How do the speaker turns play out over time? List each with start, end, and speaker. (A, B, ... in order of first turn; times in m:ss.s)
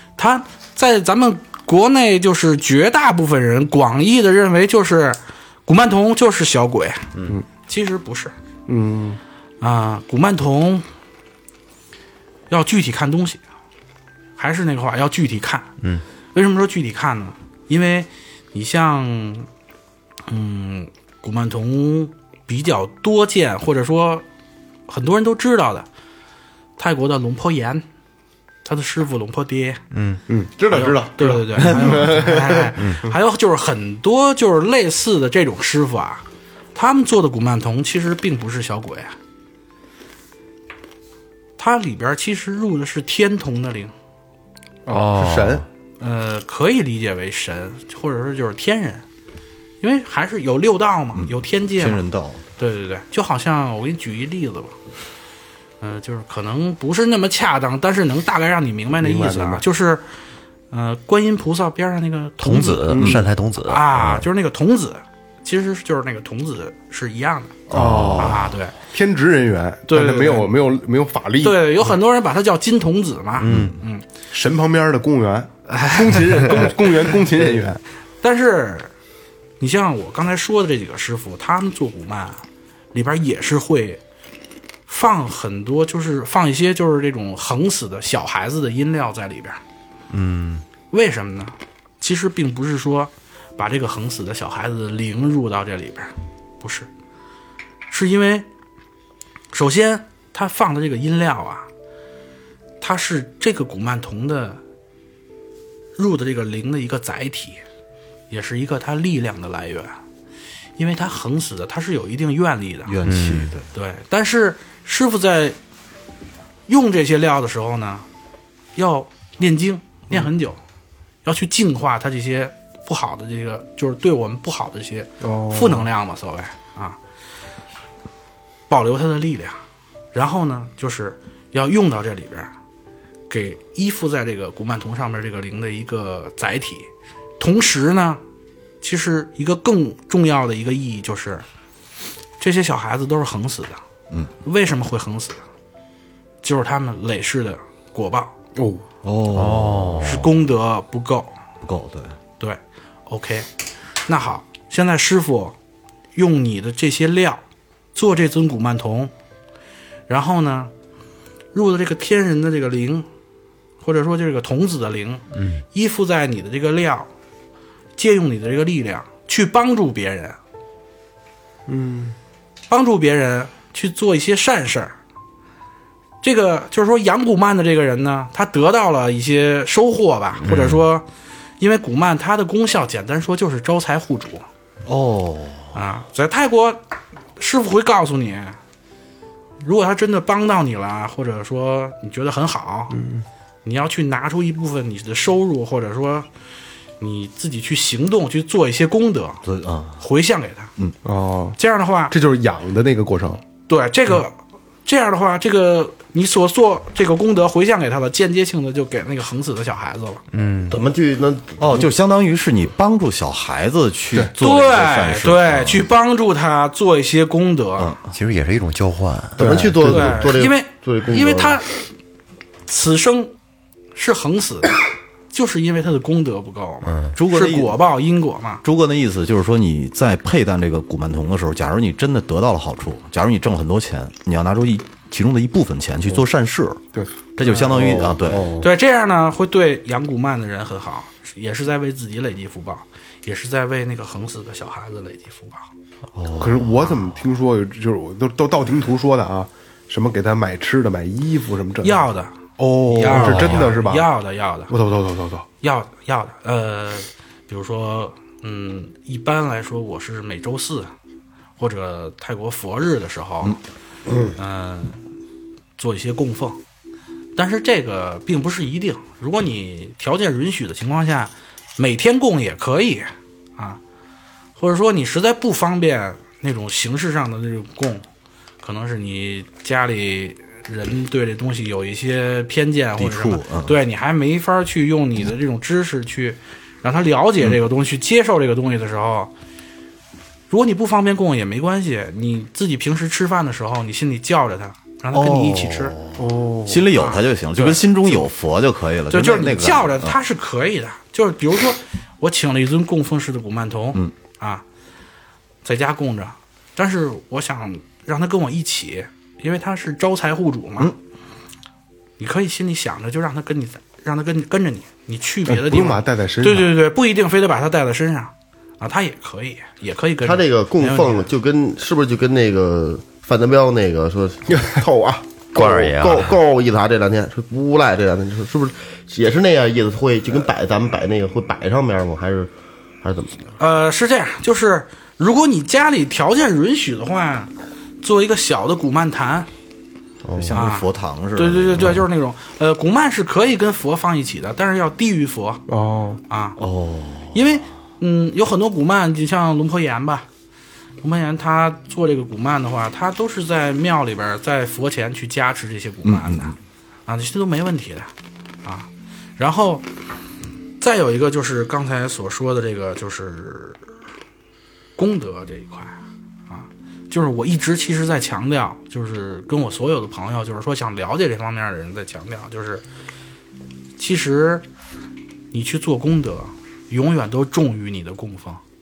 0:00.2-0:07.1 A
0:07.7-0:08.3 A
0:08.7-0:09.2 B
0:09.6-0:10.8 A
0:12.5-0:13.4 A
0:14.4-0:15.7 A
0:16.3-0:19.5 A
0:20.3-0:24.2 A
0:24.9-0:25.9 A
0:26.8-0:27.8 A
0:28.6-0:29.8 A
0:29.9-0:30.2 C
0:30.3-0:32.8 B
0:30.7-0:36.2 A
0:32.8-0:33.0 C
0:36.8-0:39.2 A
0:41.6-0:43.9 A
0:44.9-0:45.6 B
0:44.9-0:45.6 C
0:46.0-0:49.0 A
0:49.8-0:52.0 A
0:51.2-0:52.4 D
0:52.6-0:54.8 A
0:55.8-1:00.1 A
0:59.0-0:59.6 B
1:00.7-1:07.6 A
1:02.4-1:04.2 C
1:02.9-1:03.2 B
1:07.7-1:08.4 D
1:07.7-1:11.9 B
1:08.2-1:08.7 A
1:09.9-1:10.5 A
1:11.4-1:14.0 A
1:13.4-1:13.8 C
1:13.4-1:13.7 D
1:14.3-1:17.8 B
1:15.7-1:17.2 A
1:18.2-1:18.9 A
1:19.6-1:24.0 A
1:24.9-1:29.6 A
1:30.1-1:30.6 C
1:30.9-1:36.9 A
1:37.9-1:38.5 A
1:39.5-1:41.7 A
1:42.8-1:44.6 A
1:46.0-1:47.6 A
1:48.3-1:50.0 A
1:50.8-1:53.0 A
1:52.9-1:53.7 D
1:53.0-1:53.6 C
1:53.7-1:55.6 A
1:56.7-1:58.1 A
1:58.8-2:00.6 A
2:01.2-2:07.0 A
2:05.2-2:05.9 B
2:08.7-2:09.6 A
2:10.1-2:12.5 A
2:13.3-2:18.2 A
2:18.8-2:21.4 A
2:22.4-2:23.8 A
2:24.4-2:25.4 A
2:26.4-2:28.3 A
2:28.6-2:28.8 B
2:29.0-2:30.1 D
2:29.3-2:30.3 C
2:30.0-2:31.4 A
2:31.6-2:32.2 D
2:32.4-2:33.5 A
2:34.1-2:35.6 A
2:36.2-2:37.4 A
2:38.0-2:39.1 A
2:40.1-2:40.7 A
2:41.5-2:43.1 A
2:43.8-2:47.1 A
2:45.4-2:45.6 C
2:48.0-2:50.4 A
2:51.7-2:52.2 B
2:52.7-2:54.9 A
2:56.2-3:01.1 A
3:01.6-3:04.5 A
3:04.8-3:05.8 D
3:05.7-3:06.8 A
3:07.4-3:08.6 A
3:09.6-3:13.0 A
3:12.9-3:13.2 B
3:13.6-3:16.3 A
3:17.0-3:19.4 A
3:19.4-3:20.0 D
3:20.0-3:20.7 A
3:21.0-3:23.4 B
3:21.6-3:22.2 A
3:23.7-3:30.2 A
3:30.3-3:30.8 C
3:30.7-3:31.9 E
3:31.6-3:35.9 D
3:34.4-3:37.9 A
3:37.8-3:38.1 D
3:38.1-3:39.5 C
3:39.4-3:41.6 E
3:39.4-3:39.9 B
3:39.4-3:39.8 D
3:39.8-3:41.8 A
3:42.7-3:43.3 A
3:44.0-3:44.8 A
3:45.3-3:48.6 A
3:46.8-3:47.2 C
3:47.2-3:47.8 D
3:48.6-3:56.8 D
3:56.9-3:58.2 B
3:57.4-3:58.5 D
3:57.6-3:58.7 E
3:58.6-4:05.7 A
4:06.2-4:06.6 D
4:06.4-4:12.1 B
4:11.8-4:14.7 A
4:12.6-4:14.1 B
4:13.1-4:13.6 D
4:14.7-4:15.5 B
4:15.6-4:20.9 A
4:21.6-4:23.6 A
4:24.4-4:25.0 A
4:25.8-4:26.6 A
4:27.4-4:33.8 A
4:34.6-4:38.1 A
4:38.6-4:49.3 A
4:43.0-4:43.8 D
4:50.5-4:56.0 A
4:55.1-5:00.2 D
4:56.2-4:56.9 B
4:56.9-4:58.3 A
4:59.1-5:04.6 A
5:05.6-5:10.9 A
5:12.2-5:21.3 A
5:15.5-5:16.7 B
5:20.2-5:33.4 E
5:25.6-5:26.4 C
5:33.6-5:37.5 A
5:38.0-5:39.5 A
5:40.2-5:40.6 E
5:40.4-5:42.1 D
5:40.5-5:45.6 A
5:45.7-5:46.2 B
5:46.3-5:46.6 A
5:46.6-5:47.4 D
5:47.3-5:50.3 A
5:51.0-5:58.1 A
5:56.0-5:56.6 D
5:58.6-5:59.9 A
6:00.8-6:03.8 A
6:05.0-6:12.8 A
6:14.0-6:14.7 A
6:15.5-6:18.6 A